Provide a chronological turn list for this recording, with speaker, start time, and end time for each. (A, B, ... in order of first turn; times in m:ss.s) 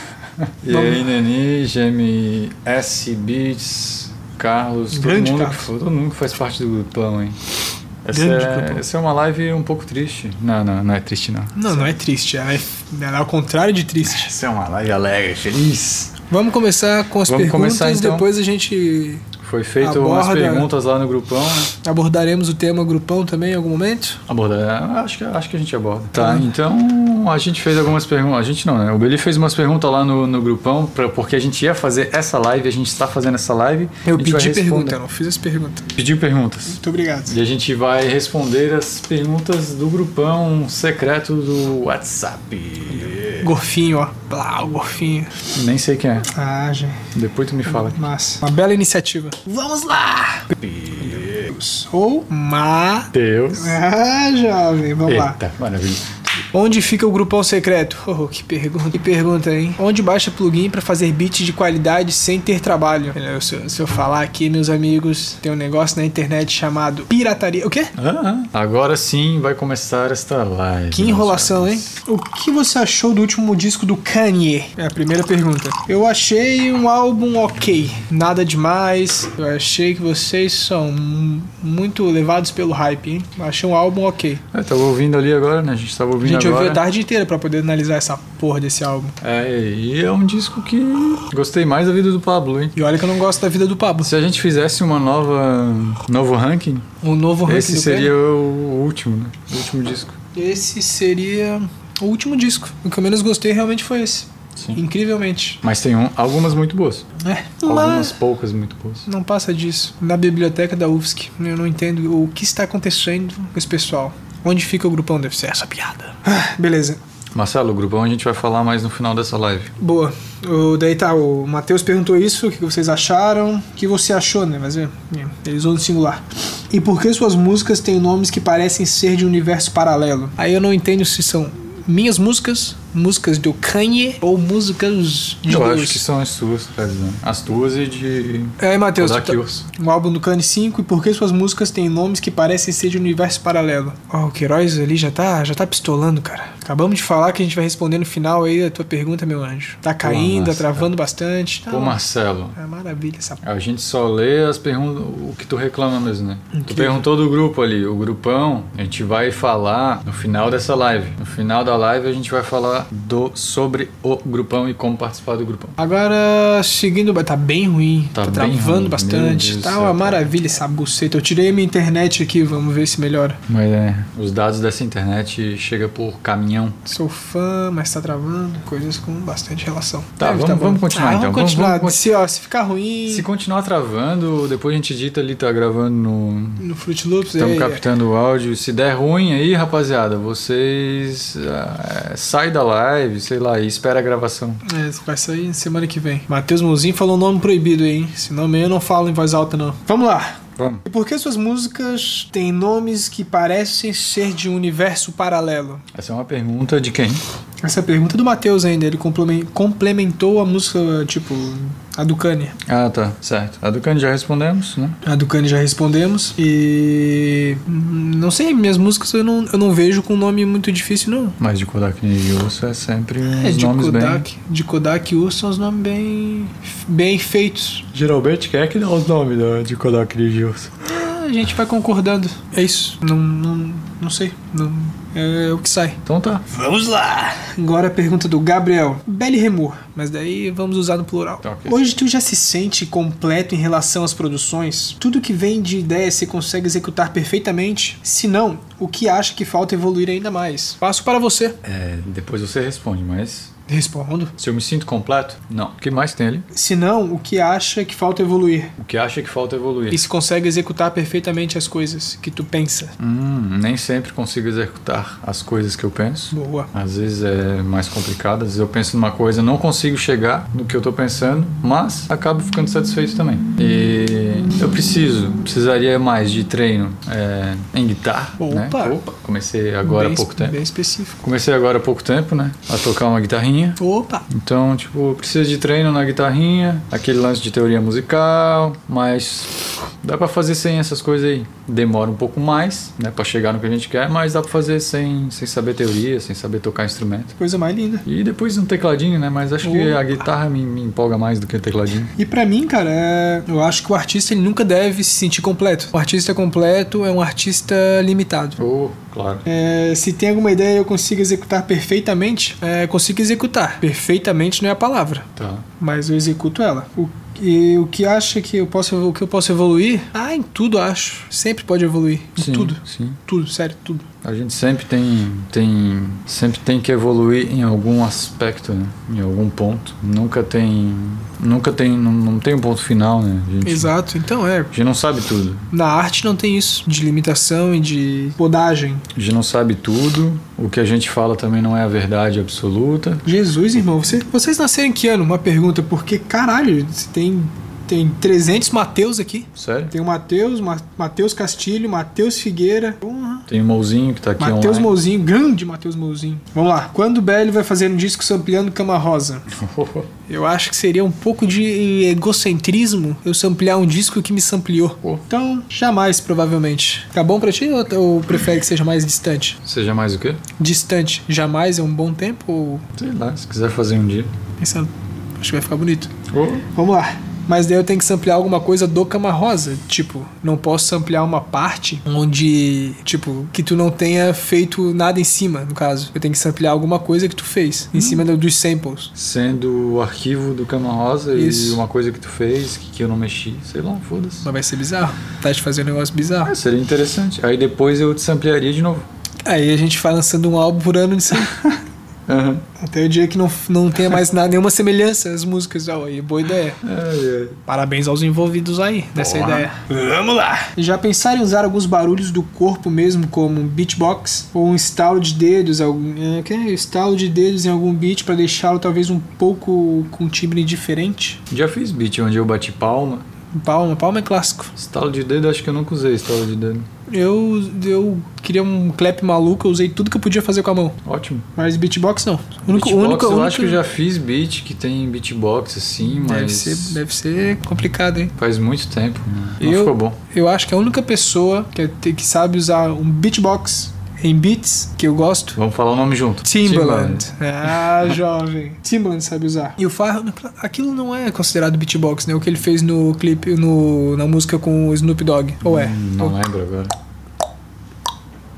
0:00.4-0:07.4 A
0:00.7-0:01.1 B
0:04.9-0:05.7 B
0:08.0-0:11.9 A
0:08.1-0:08.8 B
0:11.5-0:14.3 B
0:14.0-0:16.1 A
0:16.3-0:19.2 B
0:17.3-0:18.3 A
0:19.4-0:21.7 A
0:19.8-0:20.7 B
0:21.8-0:24.2 B
0:24.3-0:35.0 A
0:26.2-0:26.5 B
0:34.0-0:35.9 B
0:35.9-0:43.5 A
0:36.7-0:37.4 B
0:42.9-0:45.4 B
0:45.5-0:46.3 A
0:46.3-0:47.1 B
0:47.1-0:48.0 A
0:47.6-0:55.4 B
0:50.6-0:51.5 A
0:53.1-0:53.8 A
0:55.0-0:56.1 A
0:56.5-1:07.9 B
1:08.0-1:11.9 A
1:10.9-1:24.4 B
1:24.5-1:26.8 A
1:26.2-1:29.2 B
1:29.2-1:32.8 A
1:32.7-1:34.1 B
1:34.0-1:36.8 A
1:37.0-1:38.1 B
1:37.4-1:40.2 A
1:40.3-1:45.6 B
1:45.6-1:47.1 A
1:47.2-1:48.2 B
1:47.6-1:49.1 A
1:49.1-1:57.0 B
1:57.3-1:59.7 A
1:59.8-2:16.0 B
2:15.5-2:19.6 A
2:18.6-2:32.0 B
2:30.0-2:30.9 A
2:31.7-2:32.6 A
2:32.6-2:33.4 B
2:33.4-2:45.8 A
2:36.5-2:37.1 B
2:45.8-2:53.4 B
2:48.1-2:50.3 A
2:53.5-2:56.8 A
2:56.9-3:03.3 B
3:00.2-3:02.0 A
3:03.1-3:06.6 A
3:06.6-3:07.8 B
3:07.4-3:14.6 A
3:14.6-3:25.8 B
3:20.6-3:20.8 A
3:25.9-3:27.2 A
3:27.6-3:32.5 B
3:32.6-3:35.0 A
3:35.0-3:41.4 B
3:41.4-3:44.2 A
3:43.2-3:47.8 B
3:47.9-3:50.8 A
3:50.8-4:11.6 B
3:56.0-3:56.4 A
4:01.4-4:01.8 A
4:11.6-4:13.5 A
4:13.7-4:14.3 B
4:14.4-4:16.5 A
4:16.5-4:18.7 B
4:18.8-4:20.0 A
4:19.9-4:22.9 B
4:23.0-4:40.6 A
4:26.3-4:26.7 B
4:38.4-4:39.0 B
4:39.8-4:41.2 B
4:41.2-4:57.4 A
4:43.8-4:44.2 B
4:57.4-4:58.0 B
4:58.0-5:02.1 A
4:59.6-5:00.1 B
5:02.2-5:08.6 B
5:08.6-5:09.4 A
5:09.4-5:24.1 B
5:15.4-5:15.7 A
5:22.4-5:23.2 A
5:24.2-5:33.9 A
5:33.6-5:34.7 B
5:34.7-5:35.7 A
5:35.7-5:39.0 B
5:39.1-5:43.2 A
5:43.2-5:53.4 B
5:49.6-5:49.9 A
5:53.5-5:54.9 A
5:54.4-5:59.4 B
5:59.5-6:00.1 A
6:00.3-6:09.6 B
6:09.6-6:10.4 A
6:10.6-6:12.8 B
6:13.0-6:14.3 A
6:14.6-6:16.1 B
6:16.3-6:16.6 A
6:16.7-6:29.1 B
6:27.9-6:28.2 A
6:29.1-6:34.5 A
6:31.3-6:31.8 B
6:34.4-6:36.5 B
6:36.4-6:39.1 A
6:39.4-6:41.7 B
6:42.3-6:42.6 A
6:42.8-6:46.8 B
6:46.8-6:47.6 A
6:47.7-7:01.4 B
6:49.2-6:49.7 A
7:01.5-7:03.2 A
7:03.5-7:04.7 B
7:04.8-7:06.9 A
7:07.1-7:11.0 B
7:11.0-7:11.4 A
7:11.5-7:13.8 B
7:12.7-7:17.0 A
7:16.0-7:18.3 B
7:18.4-7:20.2 A
7:19.6-7:25.6 B
7:25.5-7:28.1 A
7:26.4-7:36.3 B
7:35.6-7:36.9 A